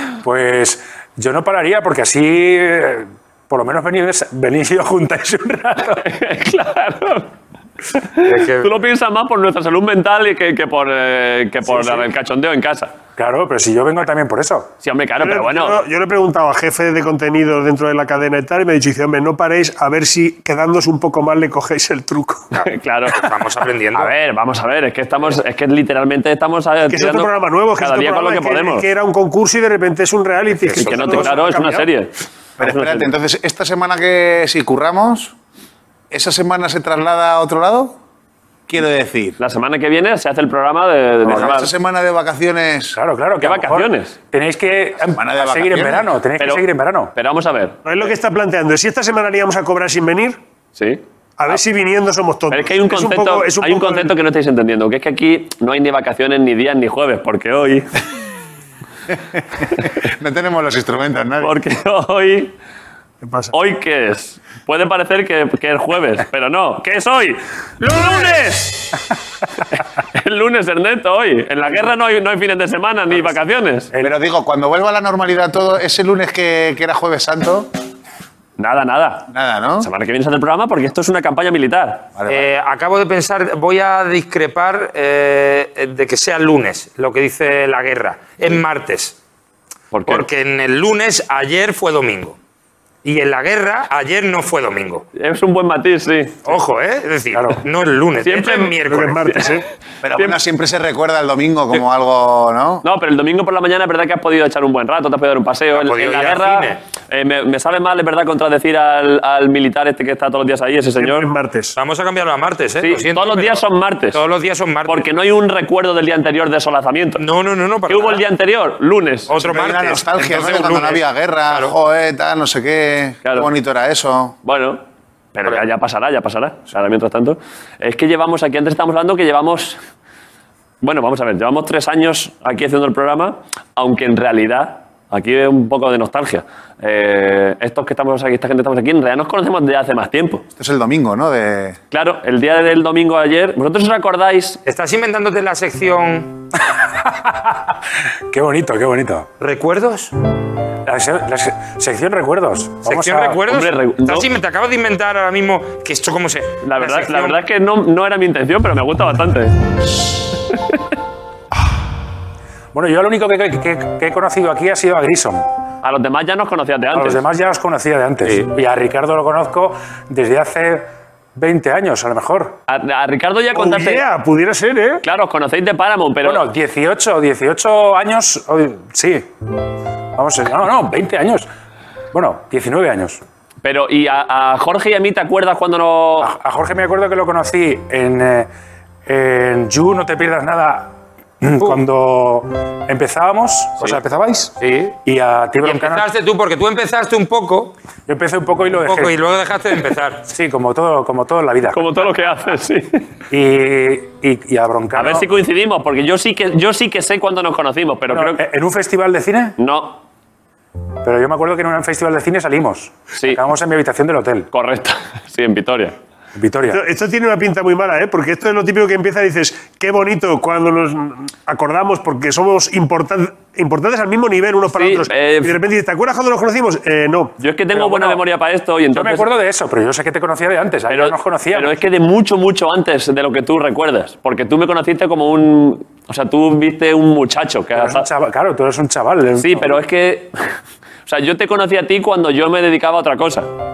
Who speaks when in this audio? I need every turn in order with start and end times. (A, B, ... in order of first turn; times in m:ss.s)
0:00.2-0:06.0 A
0:06.0-0:07.3 B
0:08.2-0:12.9 B
0:08.2-0:08.7 C
0:13.2-0:14.7 A
0:14.8-0:15.8 B
0:15.2-0:22.4 D
0:22.6-0:24.1 C
0:22.6-0:23.3 B
0:23.9-0:28.9 B
0:26.9-0:31.9 D
0:30.6-0:31.3 C
0:30.8-0:32.1 B
0:32.6-0:35.3 E
0:32.6-0:33.1 B
0:36.1-0:38.0 E
0:38.7-0:39.4 E
0:39.4-0:41.7 B
0:41.2-0:42.9 E
0:42.9-0:47.1 A
0:43.4-0:44.2 B
0:45.1-0:46.1 E
0:46.4-0:46.6 B
0:47.2-0:47.8 B
0:47.8-0:50.4 D
0:50.8-0:51.0 B
0:51.4-0:54.1 D
0:52.5-0:57.9 B
0:59.6-1:01.6 E
1:01.4-1:02.5 B
1:03.2-1:03.5 D
1:03.5-1:08.9 B
1:07.8-1:08.5 C
1:10.2-1:13.9 B
1:14.0-1:17.7 E
1:18.6-1:19.3 B
1:19.3-1:19.9 E
1:19.8-1:22.1 B
1:22.2-1:22.5 E
1:22.3-1:29.2 C
1:29.9-1:30.3 B
1:30.0-1:32.4 C
1:33.0-1:35.1 C
1:35.2-1:36.4 B
1:36.5-1:39.4 C
1:37.3-1:37.6 A
1:38.2-1:38.8 B
1:38.9-1:39.6 D
1:40.0-1:42.8 E
1:42.8-1:51.3 B
1:45.7-1:46.8 C
1:51.0-1:51.8 D
1:51.8-1:55.1 C
1:52.8-1:54.2 B
1:54.9-1:57.2 B
1:57.2-1:58.2 C
1:57.9-1:59.3 B
1:59.3-2:01.8 C
1:59.4-2:04.4 E
2:04.4-2:04.8 B
2:05.4-2:09.8 B
2:10.8-2:20.4 B
2:20.6-2:21.8 E
2:21.9-2:24.6 B
2:24.6-2:26.4 C
2:26.7-2:27.8 A
2:28.3-2:29.3 A
2:29.4-2:30.1 C
2:30.8-2:33.4 A
2:32.9-2:37.4 C
2:33.5-2:34.3 B
2:36.6-2:39.6 B
2:42.7-2:45.4 A
2:45.8-2:47.2 B
2:46.9-2:52.6 A
2:52.7-2:54.0 B
2:53.5-2:55.0 D
2:55.0-2:56.5 B
2:56.2-2:59.3 A
3:00.2-3:01.5 A
3:02.1-3:03.2 A
3:03.6-3:06.3 B
3:06.2-3:08.5 A
3:09.1-3:14.5 A
3:14.6-3:15.0 C
3:15.0-3:16.1 A
3:15.6-3:17.8 C
3:18.1-3:19.2 A
3:18.8-3:20.3 C
3:20.3-3:21.8 A
3:21.7-3:23.1 B
3:23.3-3:25.3 A
3:25.0-3:28.4 B
3:28.1-3:29.6 A
3:29.6-3:30.0 B
3:31.0-3:34.5 A
3:34.5-3:36.0 B
3:36.4-3:36.8 A
3:36.7-3:47.3 D
3:44.8-3:45.6 B
3:47.4-3:49.3 B
3:47.7-3:48.2 A
3:48.9-3:51.8 A
3:50.9-3:58.1 B
3:57.8-3:59.8 A
3:59.4-4:00.3 B
4:01.1-4:03.5 B